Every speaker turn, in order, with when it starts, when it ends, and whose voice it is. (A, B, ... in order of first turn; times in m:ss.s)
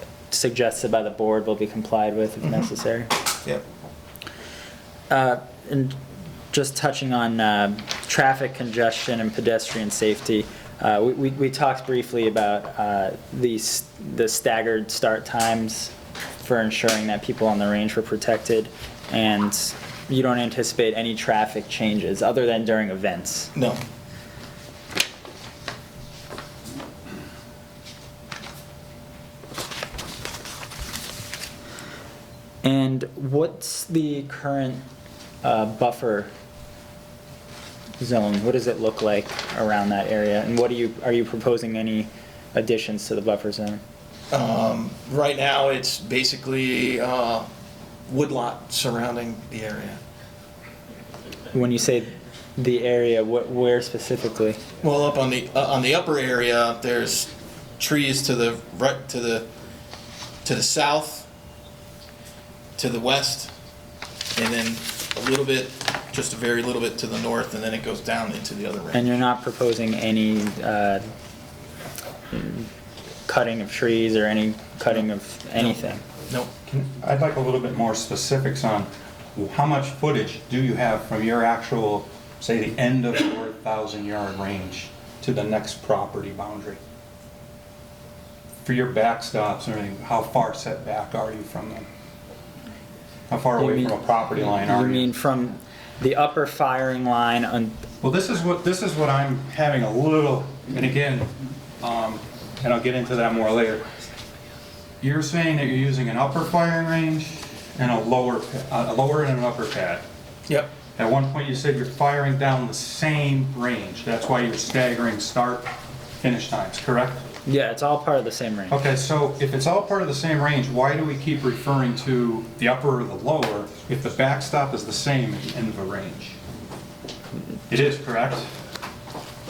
0:00.3-0:03.1 A
0:05.1-0:06.0 A
0:06.5-0:23.5 A
0:23.6-0:23.8 B
0:32.6-0:34.8 A
0:35.4-0:36.3 A
0:38.0-0:43.8 A
0:44.3-0:47.5 B
0:48.1-0:50.0 B
0:51.5-0:54.6 A
0:54.8-0:59.5 B
1:00.4-1:01.3 B
1:02.8-1:03.5 B
1:04.4-1:09.1 B
1:08.9-1:11.0 A
1:12.3-1:12.7 A
1:13.3-1:16.0 A
1:16.7-1:26.8 C
1:28.6-1:31.9 C
1:33.3-1:35.1 C
1:33.6-1:37.8 A
1:38.0-1:43.8 C
1:45.0-1:50.0 C
1:50.8-1:57.2 C
1:57.4-1:58.8 A
1:58.7-2:06.4 C
2:07.7-2:08.5 C